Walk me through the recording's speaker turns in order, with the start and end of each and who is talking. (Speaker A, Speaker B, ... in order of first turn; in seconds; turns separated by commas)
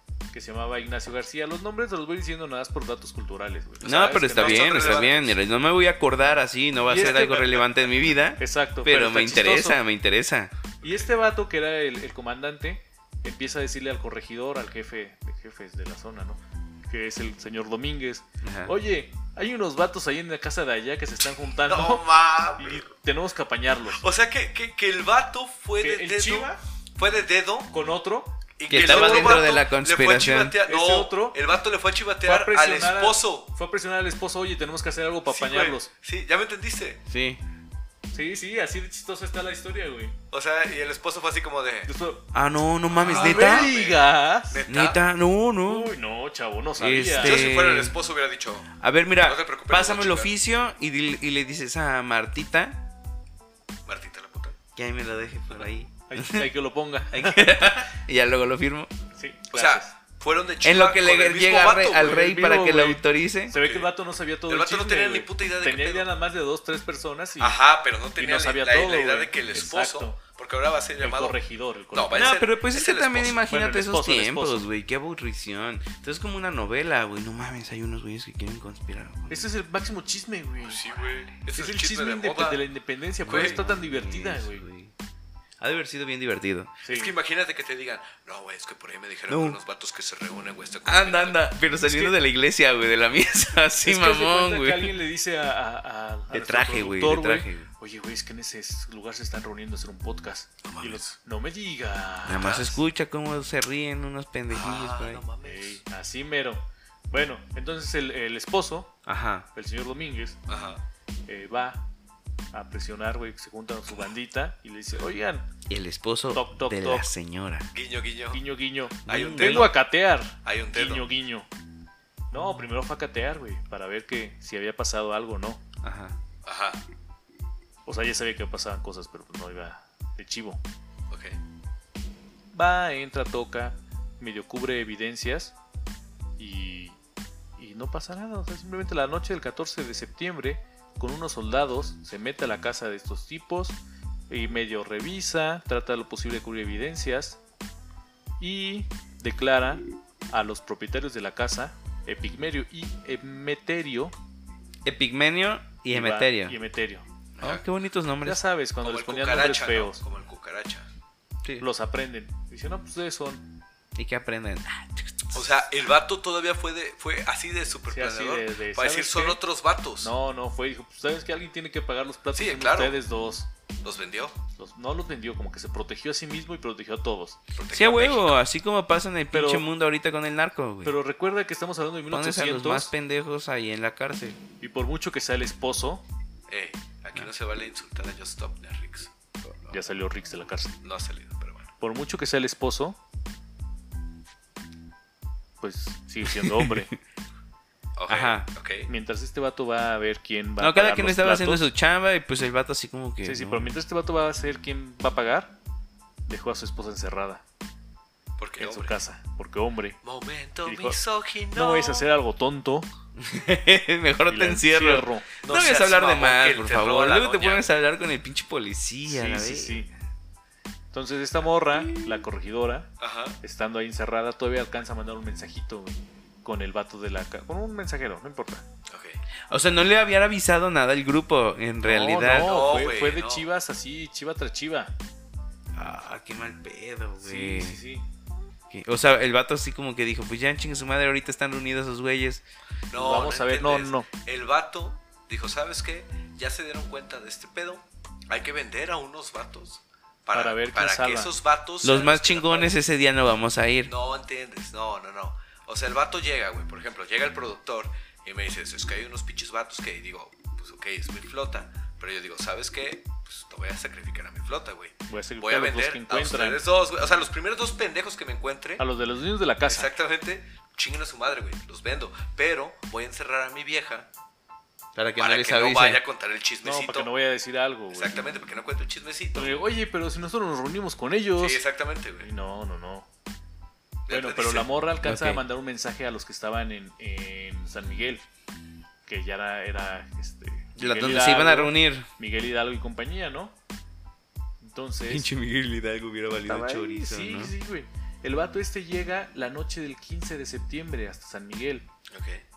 Speaker A: 0.3-5.2, Speaker B: 3.8-10.5, Speaker C: 4.3-5.4, Speaker A: 6.9-7.7, Speaker A: 8.4-9.8, Speaker C: 10.8-11.1, Speaker A: 10.8-22.1, Speaker B: 18.4-18.8, Speaker C: 21.6-22.9, Speaker A: 22.6-24.1, Speaker C: 23.9-27.7, Speaker A: 25.8-26.6, Speaker A: 27.7-29.5, Speaker C: 28.6-33.5, Speaker B: 28.7-30.6, Speaker A: 30.6-31.4, Speaker A: 32.2-35.9, Speaker C: 35.3-37.0, Speaker B: 37.1-37.4, Speaker A: 38.1-40.2, Speaker C: 40.3-41.9, Speaker A: 41.9-42.3, Speaker B: 42.3-43.7, Speaker C: 42.9-45.0, Speaker A: 43.0-44.6, Speaker B: 44.7-45.9, Speaker A: 45.6-47.5, Speaker B: 46.8-48.0, Speaker C: 47.2-50.3, Speaker B: 48.8-52.8, Speaker C: 53.9-54.6, Speaker B: 54.8-56.5, Speaker A: 56.1-57.7, Speaker B: 57.1-58.9, Speaker A: 59.2-59.9, Speaker C: 59.5-62.3, Speaker B: 60.6-63.5, Speaker A: 62.0-67.6, Speaker C: 63.6-63.9, Speaker C: 64.5-66.1, Speaker C: 67.4-71.4, Speaker A: 68.2-70.2, Speaker A: 71.0-72.4, Speaker C: 71.9-73.4, Speaker B: 72.1-79.5, Speaker A: 73.5-74.7, Speaker A: 79.3-80.9, Speaker C: 80.6-82.6, Speaker A: 81.5-84.7, Speaker C: 83.3-83.6, Speaker B: 83.3-84.9, Speaker B: 85.6-86.7, Speaker A: 86.8-87.1, Speaker C: 86.9-91.4, Speaker B: 89.3-89.6, Speaker B: 90.8-94.9, Speaker A: 91.8-92.1, Speaker A: 93.8-102.8, Speaker B: 96.3-97.7, Speaker C: 100.6-101.1, Speaker B: 102.3-105.2, Speaker C: 102.4-102.8, Speaker C: 104.5-105.8, Speaker A: 105.4-108.9, Speaker B: 109.1-109.5, Speaker A: 109.5-110.4, Speaker C: 110.5-110.8, Speaker A: 111.3-111.8, Speaker A: 112.5-115.5, Speaker B: 115.7-117.7, Speaker A: 116.3-117.1, Speaker C: 117.7-118.4, Speaker A: 118.3-121.5, Speaker C: 119.1-119.8, Speaker B: 119.1-119.7, Speaker C: 120.4-121.1, Speaker A: 122.3-125.6, Speaker B: 125.8-126.2, Speaker C: 126.5-126.8, Speaker A: 127.9-130.6, Speaker C: 131.1-131.4, Speaker A: 132.5-135.5, Speaker A: 136.4-137.0, Speaker A: 137.6-147.4, Speaker A: 148.4-154.2, Speaker B: 154.8-156.6, Speaker A: 155.9-157.1, Speaker C: 157.4-157.7, Speaker B: 157.4-158.4, Speaker A: 158.2-160.0, Speaker C: 158.8-160.9, Speaker A: 161.6-163.5, Speaker B: 163.9-165.6, Speaker C: 165.3-170.1, Speaker A: 167.9-169.4, Speaker A: 170.0-173.5, Speaker C: 172.3-173.0, Speaker C: 173.8-174.4, Speaker A: 174.6-177.4, Speaker C: 177.5-178.4, Speaker B: 177.7-181.0, Speaker A: 179.3-179.7, Speaker A: 180.8-182.9, Speaker B: 182.1-184.4, Speaker A: 184.6-186.0, Speaker C: 186.5-189.1, Speaker A: 189.7-190.8, Speaker C: 190.8-191.7, Speaker A: 191.8-193.0, Speaker A: 195.6-196.9, Speaker B: 196.3-196.8, Speaker C: 198.0-198.9, Speaker B: 198.1-198.5, Speaker A: 198.9-201.6, Speaker B: 200.6-203.7, Speaker A: 203.2-205.6, Speaker A: 206.3-207.4, Speaker C: 208.4-209.0, Speaker A: 208.6-210.0, Speaker C: 210.0-212.1, Speaker A: 210.6-211.0, Speaker A: 211.5-212.9, Speaker B: 213.2-219.8, Speaker A: 214.3-215.3, Speaker C: 215.4-217.7, Speaker A: 219.1-219.9, Speaker A: 220.9-222.9, Speaker B: 221.7-222.2, Speaker C: 223.0-223.4, Speaker A: 223.4-228.7, Speaker C: 228.9-229.2, Speaker B: 229.5-232.5, Speaker A: 231.8-234.9, Speaker C: 232.4-233.5, Speaker B: 235.7-237.8, Speaker A: 237.2-238.1, Speaker B: 238.7-242.4, Speaker C: 242.9-252.8, Speaker A: 242.9-244.1, Speaker A: 250.3-251.3, Speaker B: 251.8-253.9, Speaker C: 253.9-268.8, Speaker A: 265.1-266.6, Speaker A: 268.8-269.9, Speaker C: 269.7-274.1, Speaker B: 274.9-276.0, Speaker C: 275.2-277.1, Speaker A: 276.6-278.3, Speaker C: 277.9-279.6, Speaker A: 279.4-281.6, Speaker C: 281.4-282.3, Speaker A: 282.2-283.1, Speaker C: 284.1-284.7, Speaker A: 284.1-288.2, Speaker B: 285.0-285.4, Speaker A: 289.1-293.6, Speaker B: 290.8-292.1, Speaker A: 294.6-295.3, Speaker B: 295.1-297.5, Speaker A: 296.5-301.9, Speaker C: 302.1-302.4